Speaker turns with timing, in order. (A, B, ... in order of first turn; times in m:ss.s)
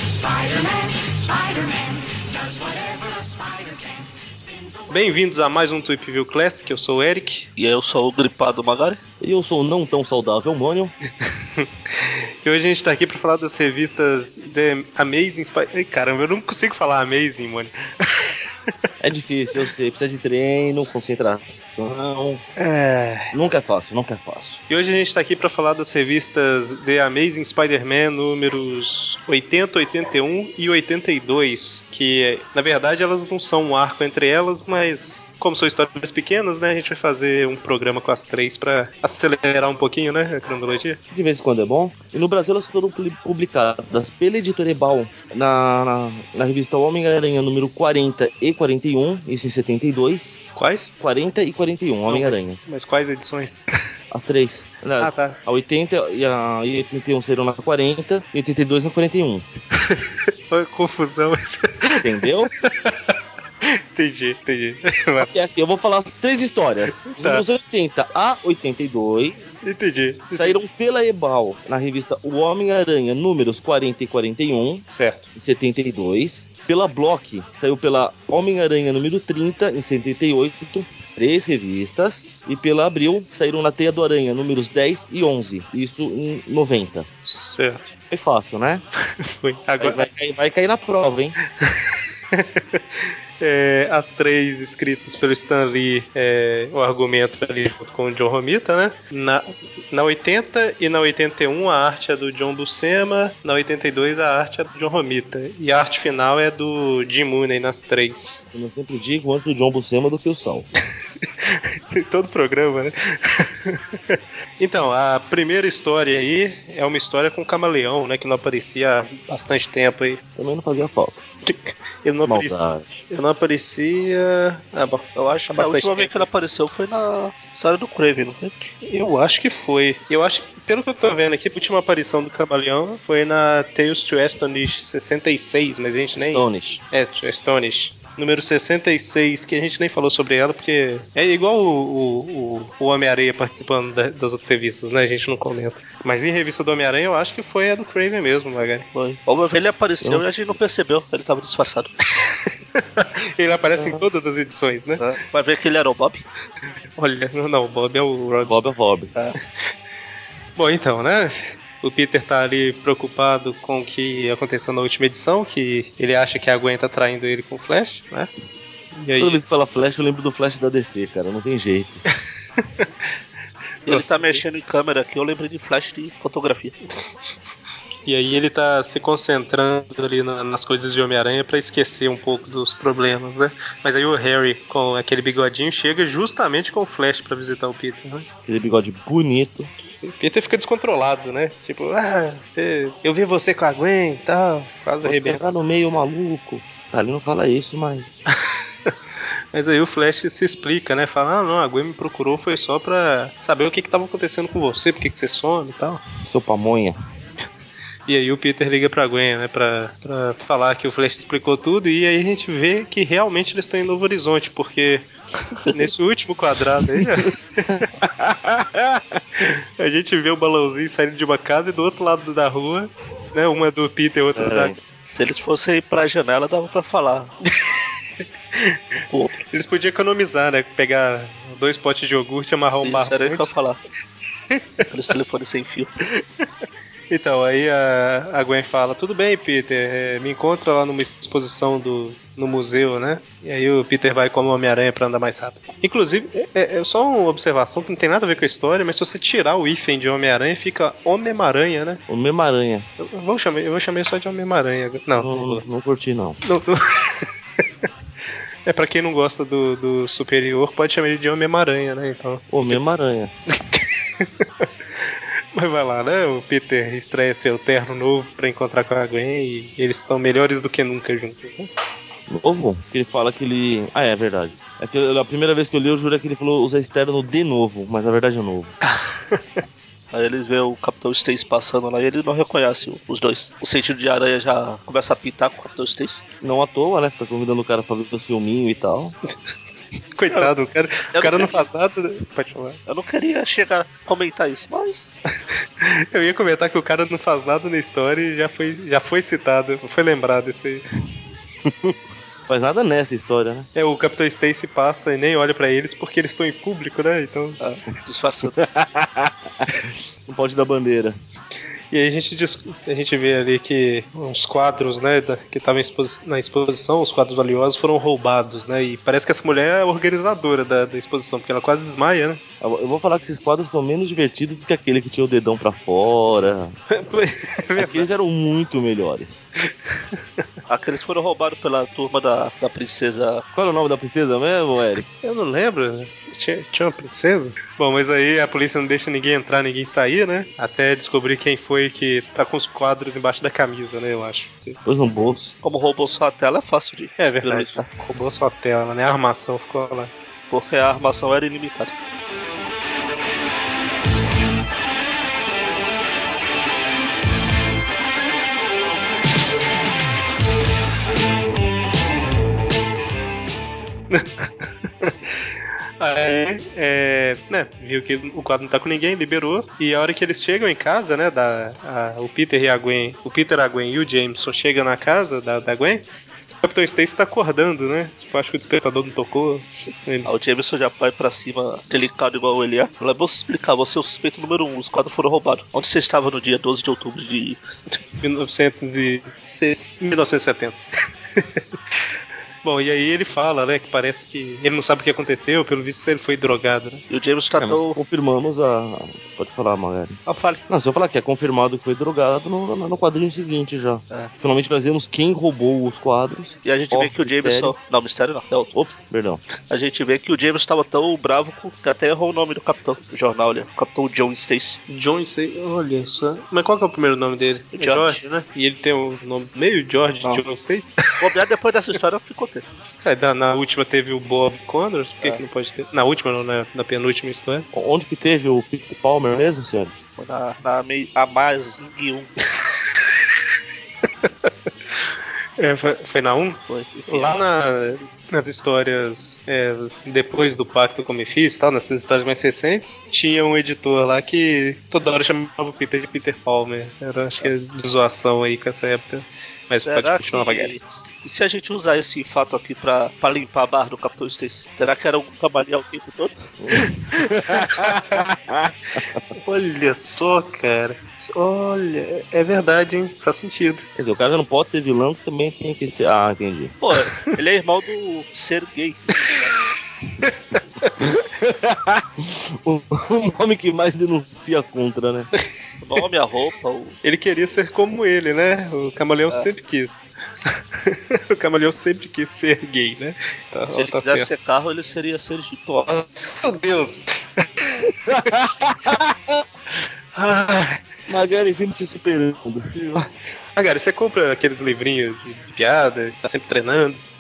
0:04.9-0:07.5 A
0:07.6-0:09.0 B
0:09.2-0:10.9 C
0:11.6-0:18.3 A
0:19.0-0:22.4 C
0:22.6-0:23.3 A
0:23.3-0:24.6 C
0:24.7-0:41.0 A
0:41.1-0:50.4 C
0:50.5-0:50.9 A
0:51.0-0:52.6 C
0:52.1-0:53.6 A
0:54.1-0:59.4 C
0:55.0-0:55.4 A
0:59.9-1:02.9 A
1:02.0-1:02.5 C
1:03.6-1:05.3 A
1:05.2-1:09.6 C
1:07.0-1:07.4 A
1:09.6-1:10.6 A
1:10.3-1:27.0 C
1:14.9-1:15.3 A
1:27.2-1:27.9 A
1:28.1-1:28.8 C
1:29.4-1:30.0 A
1:29.8-1:31.4 C
1:31.6-1:32.8 A
1:33.4-1:48.4 A
1:48.5-1:50.7 C
1:51.4-2:00.2 A
2:00.4-2:01.2 C
2:01.4-2:06.3 A
2:02.2-2:02.8 C
2:05.2-2:08.6 B
2:08.8-2:28.8 A
2:16.1-2:16.8 C
2:28.9-2:31.9 B
2:30.0-2:30.6 C
2:32.7-2:35.0 A
2:33.8-2:34.0 C
2:35.0-2:36.2 B
2:37.0-2:38.5 A
2:38.4-2:39.3 C
2:40.6-2:48.3 A
2:48.9-2:49.4 A
2:49.2-2:52.0 C
2:53.8-2:56.8 B
2:53.9-2:54.4 A
2:58.0-3:08.2 A
3:08.4-3:09.7 C
3:10.0-3:15.4 A
3:15.0-3:18.2 C
3:19.5-3:26.0 A
3:26.2-3:27.0 C
3:28.1-3:35.1 A
3:35.7-3:37.9 A
3:37.7-3:39.1 C
3:39.4-3:44.7 A
3:44.4-3:44.8 C
3:45.0-3:47.3 B
3:49.1-3:49.4 B
3:49.5-3:53.5 A
3:52.8-3:53.8 B
3:54.9-3:55.9 B
3:57.1-4:12.0 A
4:12.1-4:12.8 C
4:13.0-4:15.6 A
4:15.2-4:16.4 C
4:16.4-4:17.3 A
4:18.6-4:22.8 A
4:22.5-4:23.3 C
4:23.7-4:24.7 A
4:25.5-4:31.7 A
4:32.3-4:38.7 C
4:40.1-4:46.2 B
4:46.4-4:49.2 C
4:50.1-4:52.8 A
4:51.1-4:51.6 B
4:52.9-4:55.2 B
4:55.8-5:00.8 A
5:01.6-5:03.7 C
5:03.7-5:07.6 A
5:07.6-5:08.6 B
5:08.6-5:11.2 C
5:11.9-5:22.4 A
5:22.6-5:26.8 C
5:26.9-5:28.0 A
5:27.8-5:29.5 C
5:30.7-5:33.4 B
5:33.5-5:35.1 C
5:35.2-5:44.8 A
5:44.8-5:45.5 C
5:45.6-5:47.8 B
5:47.2-5:50.1 A
5:50.5-5:51.9 B
6:04.1-6:04.5 A
6:06.0-6:16.0 A
6:16.6-6:20.3 A
6:20.2-6:27.6 B
6:28.1-6:30.9 A
6:32.6-6:37.0 A
6:37.1-6:38.0 B
6:37.6-6:47.7 C
6:40.2-6:40.6 B
6:46.6-6:48.8 B
6:48.7-6:49.4 C
6:49.7-6:54.8 B
6:54.9-7:01.0 A
6:57.7-6:58.2 B
7:01.2-7:02.6 B
7:03.0-7:07.6 A
7:07.7-7:10.1 C
7:10.2-7:12.3 B
7:15.6-7:30.7 A
7:16.7-7:17.4 B
7:29.8-7:36.3 B
7:36.6-7:39.2 C
7:37.5-7:38.0 A
7:39.3-7:43.8 A
7:44.0-7:46.7 C
7:46.8-7:49.0 B
7:50.2-7:50.9 A
7:51.0-7:55.3 C
7:55.8-7:57.0 B
7:57.0-8:04.3 A
8:03.7-8:05.9 B
8:05.9-8:07.8 A
8:07.8-8:09.4 C
8:10.1-8:10.8 A
8:11.1-8:12.7 C
8:12.8-8:17.0 A